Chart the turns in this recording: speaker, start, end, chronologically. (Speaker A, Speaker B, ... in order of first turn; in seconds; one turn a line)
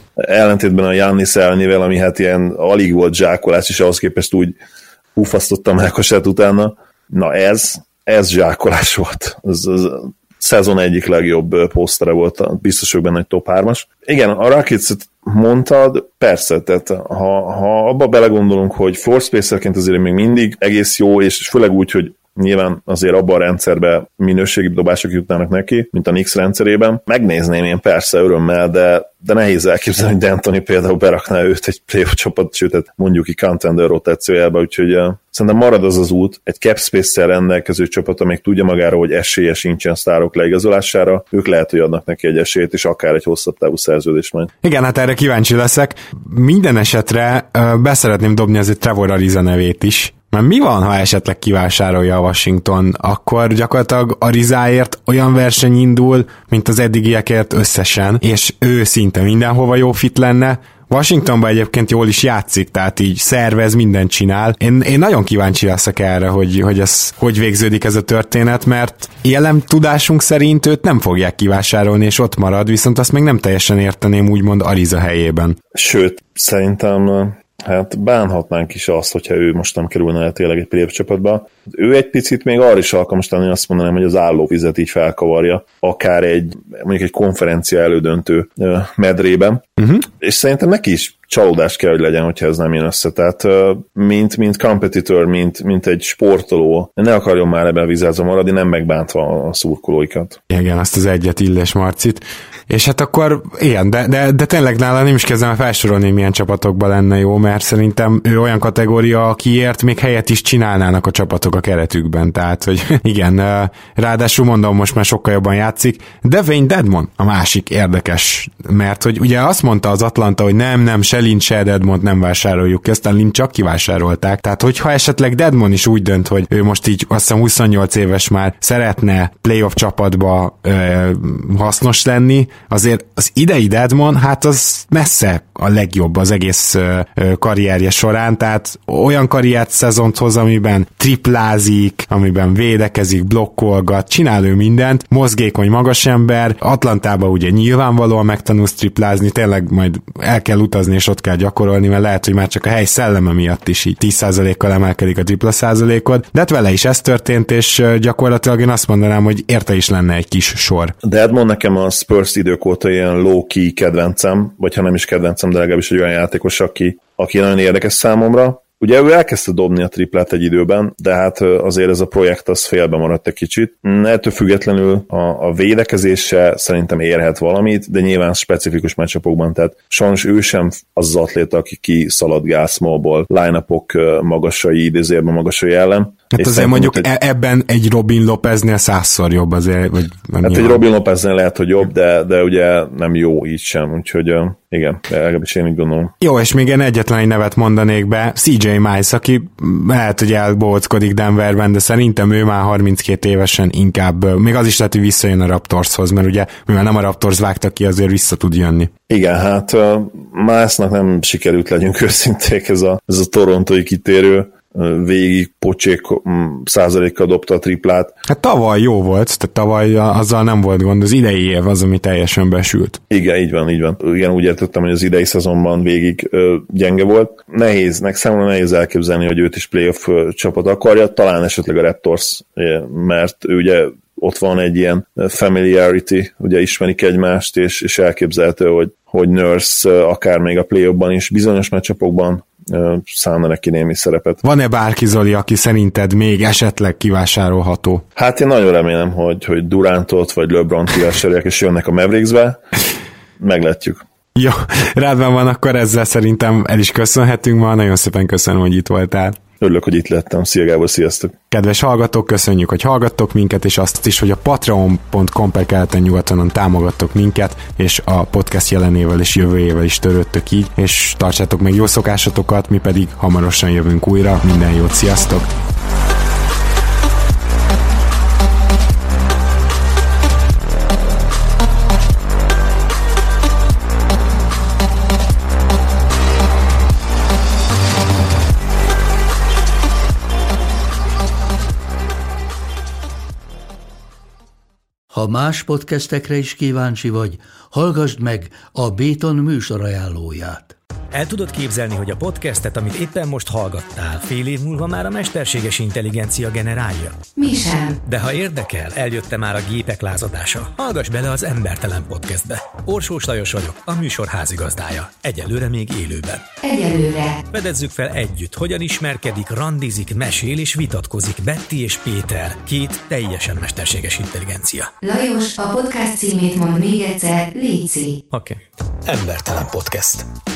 Speaker A: 0.2-4.6
Speaker A: 5.2-44.5
Speaker B: 44.6-75.6
Speaker A: 75.7-100.4
Speaker B: 100.5-160.9
Speaker A: 161.0-187.1
Speaker B: 186.3-190.8
Speaker A: 190.4-196.1
Speaker B: 196.2-208.9
Speaker A: 209.1-218.1
Speaker B: 218.3-223.0
Speaker A: 223.1-244.4
Speaker B: 244.4-248.0
Speaker A: 248.2-252.6
Speaker A: 253.4-254.0
Speaker B: 254.3-259.4
Speaker A: 259.6-261.3
Speaker B: 261.5-275.5
Speaker C: 295.1-300.7
Speaker D: 301.1-307.3
Speaker E: 307.3-308.0
Speaker D: 308.1-316.5
Speaker E: 316.6-317.4
Speaker D: 317.5-324.9
Speaker E: 325.0-328.2
Speaker D: 328.3-330.3